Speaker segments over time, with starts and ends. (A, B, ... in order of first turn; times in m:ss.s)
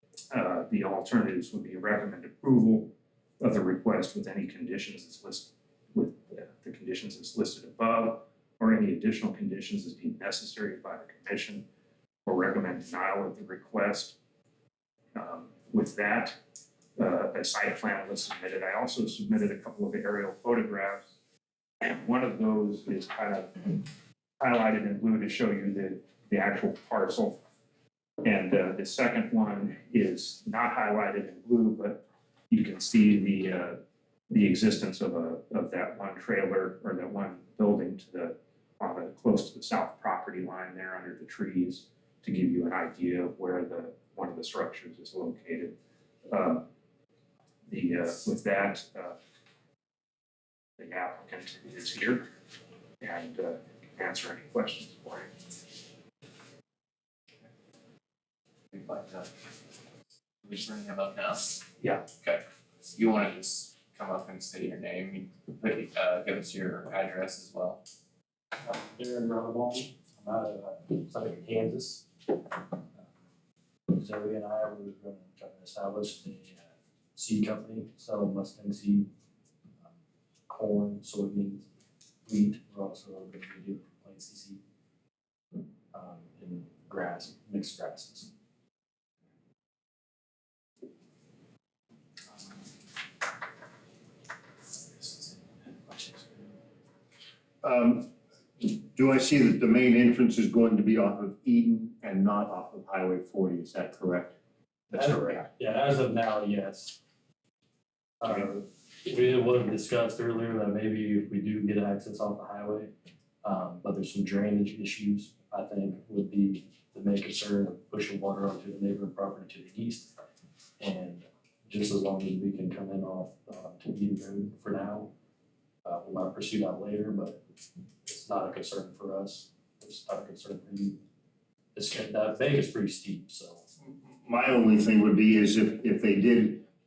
0:00.3-0:11.7 A
0:12.2-0:14.2 A
0:15.2-0:16.4 A
0:17.0-0:21.2 A
0:21.8-0:23.8 A
0:24.4-0:27.4 A
0:28.2-0:45.8 A
0:46.3-0:46.6 A
0:47.7-0:49.2 A
0:50.8-0:52.3 A
0:53.0-0:55.3 A
0:58.7-0:59.3 B
1:00.4-1:01.6 B
1:01.8-1:02.1 A
1:02.2-1:07.8 B
1:08.6-1:12.1 C
1:13.9-1:19.1 C
1:20.5-1:21.7 C
1:22.3-1:24.6 C
1:25.9-1:28.3 C
1:35.0-1:36.5 C
1:37.6-1:44.4 D
1:44.9-1:45.5 A
1:44.9-1:47.0 C
1:48.2-2:00.1 C
2:00.8-2:05.1 C
2:05.8-2:07.4 C
2:08.0-2:11.0 C
2:11.8-2:13.6 C
2:13.9-2:16.6 D